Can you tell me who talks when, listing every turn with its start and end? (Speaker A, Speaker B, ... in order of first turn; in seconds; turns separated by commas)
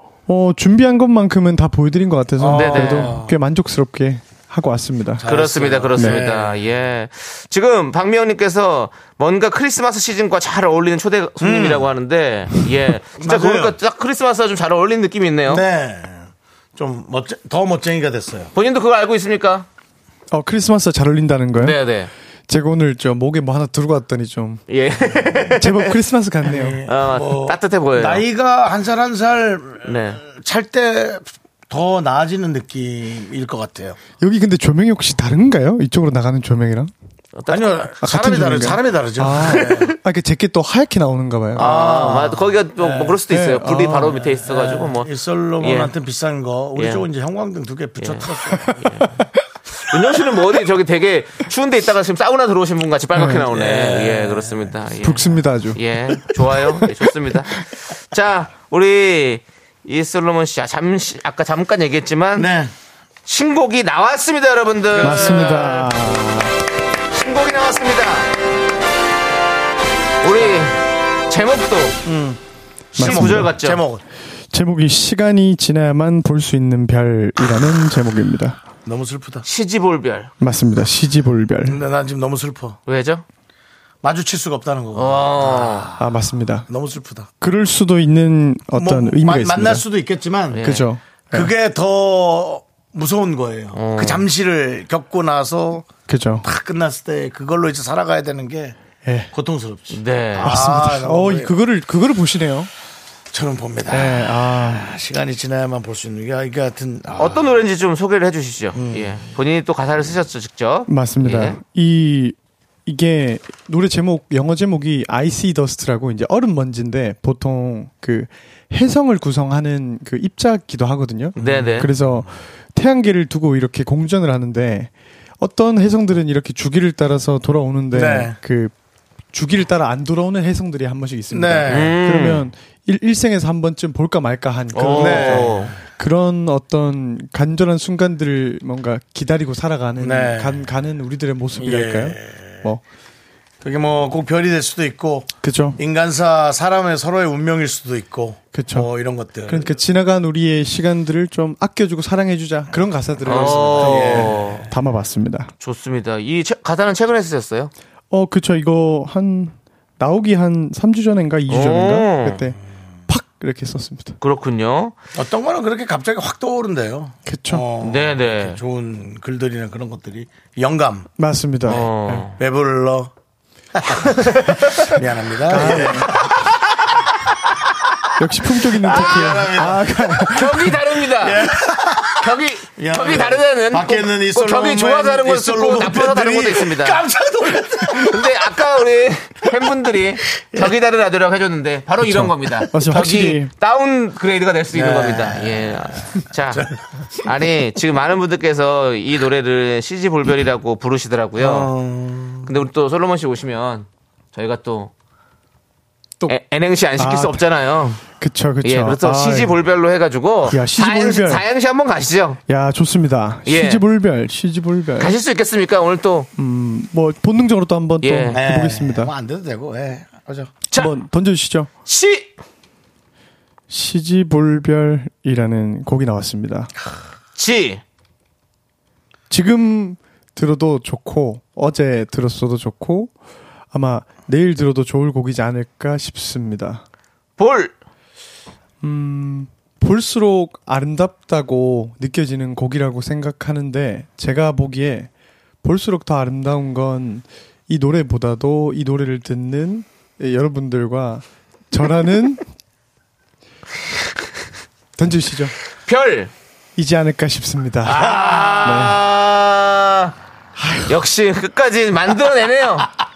Speaker A: 0.3-5.2, Speaker B: 2.4-3.4, Speaker C: 2.5-3.2, Speaker B: 5.2-6.6, Speaker C: 5.2-15.6, Speaker A: 5.9-6.2, Speaker B: 11.4-11.9, Speaker B: 13.2-13.8, Speaker B: 15.5-18.5, Speaker C: 18.5-19.7, Speaker A: 20.3-21.8, Speaker C: 21.6-22.1, Speaker A: 22.5-24.6, Speaker C: 24.7-26.0, Speaker A: 25.6-26.8, Speaker B: 26.4-34.0, Speaker C: 26.8-28.2, Speaker C: 29.8-30.2, Speaker A: 34.2-36.9, Speaker C: 37.4-37.9, Speaker B: 37.5-39.9, Speaker A: 38.0-41.7, Speaker C: 39.5-39.9, Speaker B: 41.5-43.2, Speaker C: 41.5-45.1, Speaker A: 43.3-44.2, Speaker B: 44.1-48.7, Speaker C: 45.6-45.9, Speaker C: 46.8-47.0, Speaker C: 48.0-49.2, Speaker A: 48.7-49.2, Speaker C: 49.7-62.5, Speaker A: 53.1-53.5, Speaker B: 53.5-54.8, Speaker A: 55.0-55.8, Speaker B: 62.3-62.7, Speaker C: 63.2-65.9, Speaker B: 64.9-65.8, Speaker A: 65.0-66.5, Speaker C: 67.1-68.3, Speaker C: 70.2-72.0, Speaker B: 72.0-72.4, Speaker C: 72.9-73.8, Speaker B: 72.9-74.0, Speaker A: 73.0-73.5, Speaker A: 74.5-78.6, Speaker B: 78.8-79.5, Speaker C: 79.4-80.3, Speaker A: 80.4-81.8, Speaker B: 81.6-82.8, Speaker C: 82.8-83.2, Speaker B: 84.0-86.2, Speaker C: 84.9-85.9, Speaker A: 86.0-86.7, Speaker B: 86.7-87.3, Speaker A: 87.4-89.8, Speaker B: 88.7-90.7, Speaker C: 90.5-90.9, Speaker A: 90.6-91.5, Speaker B: 91.3-95.9, Speaker C: 93.7-94.2, Speaker A: 96.1-96.4, Speaker B: 96.4-98.8, Speaker A: 99.0-99.3, Speaker B: 99.3-101.5, Speaker C: 99.9-100.6, Speaker A: 100.4-102.7, Speaker B: 103.3-107.6, Speaker A: 103.9-104.9, Speaker C: 107.2-111.6, Speaker B: 108.7-109.2, Speaker A: 110.9-128.7, Speaker C: 121.4-121.9, Speaker B: 121.4-122.3, Speaker B: 127.9-128.4, Speaker A: 129.3-142.8, Speaker B: 131.3-132.0, Speaker C: 131.7-132.5, Speaker C: 134.7-135.7, Speaker B: 134.9-135.8, Speaker B: 140.0-140.7, Speaker B: 141.5-142.7, Speaker B: 143.6-149.8, Speaker A: 145.4-145.8, Speaker A: 148.5-148.9, Speaker A: 149.5-155.5, Speaker C: 153.2-154.7, Speaker B: 153.3-154.6, Speaker C: 155.6-157.7, Speaker A: 158.1-164.2, Speaker C: 161.5-162.5, Speaker C: 164.2-164.9, Speaker B: 165.1-171.1, Speaker A: 167.2-167.7, Speaker C: 167.8-168.6, Speaker A: 171.2-172.3, Speaker C: 171.7-172.4, Speaker B: 171.7-173.1, Speaker B: 173.7-176.5, Speaker C: 173.9-175.0, Speaker A: 175.4-176.2, Speaker A: 178.2-180.8, Speaker B: 178.8-180.3, Speaker C: 178.8-179.5, Speaker C: 180.3-181.5, Speaker B: 181.2-188.4, Speaker C: 182.2-187.0, Speaker C: 187.9-196.7, Speaker B: 190.5-190.8, Speaker A: 192.0-193.5, Speaker B: 194.7-197.3, Speaker C: 197.2-201.7, Speaker B: 201.4-202.5, Speaker C: 202.4-204.9, Speaker C: 206.2-208.0, Speaker A: 207.0-207.4, Speaker A: 208.1-209.6, Speaker C: 208.6-212.4, Speaker A: 210.5-211.4, Speaker A: 212.5-215.2, Speaker C: 213.4-213.8, Speaker C: 215.0-216.3, Speaker A: 216.4-219.1, Speaker C: 218.0-218.4, Speaker B: 218.3-220.6, Speaker A: 220.7-221.7, Speaker C: 221.9-222.3, Speaker A: 223.7-226.7, Speaker C: 227.3-227.8, Speaker A: 229.3-233.1, Speaker A: 233.7-236.8, Speaker C: 237.4-237.8, Speaker A: 238.8-245.1, Speaker A: 245.6-252.4, Speaker A: 255.0-255.5, Speaker C: 255.9-256.3, Speaker A: 256.8-258.0, Speaker C: 257.8-260.1, Speaker B: 257.9-258.8, Speaker A: 258.6-259.0, Speaker A: 260.6-260.9, Speaker C: 260.9-262.9